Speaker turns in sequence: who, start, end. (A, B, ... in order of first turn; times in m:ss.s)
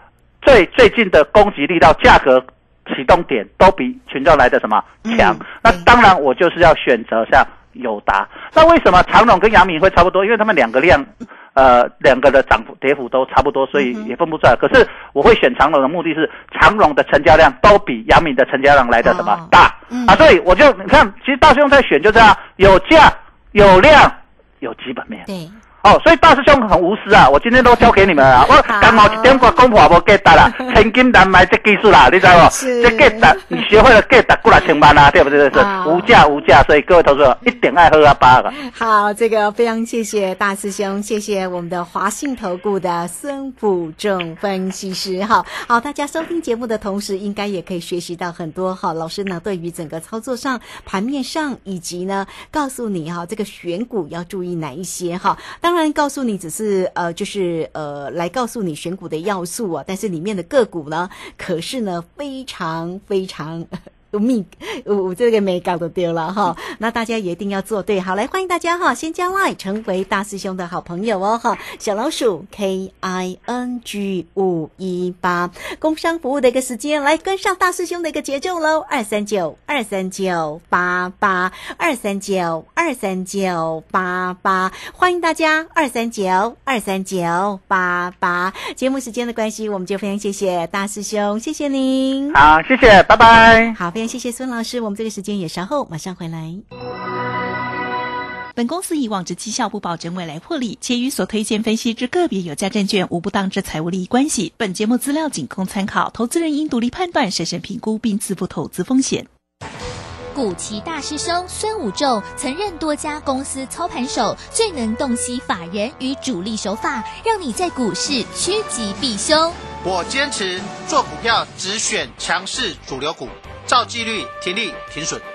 0:00.4-0:25.2 A
0:05.0-0:05.8 B
0:13.8-0:14.1 B
0:19.0-0:20.2 B
0:25.3-0:25.6 B
0:25.8-0:38.5 A
0:28.6-0:29.6 B
0:32.4-0:33.6 B
0:35.5-0:36.1 B
0:38.5-1:32.4 B
1:32.3-1:33.8 A
1:33.7-1:36.6 B
1:38.5-1:49.3 C
1:50.3-1:59.6 D
1:59.8-2:05.2 E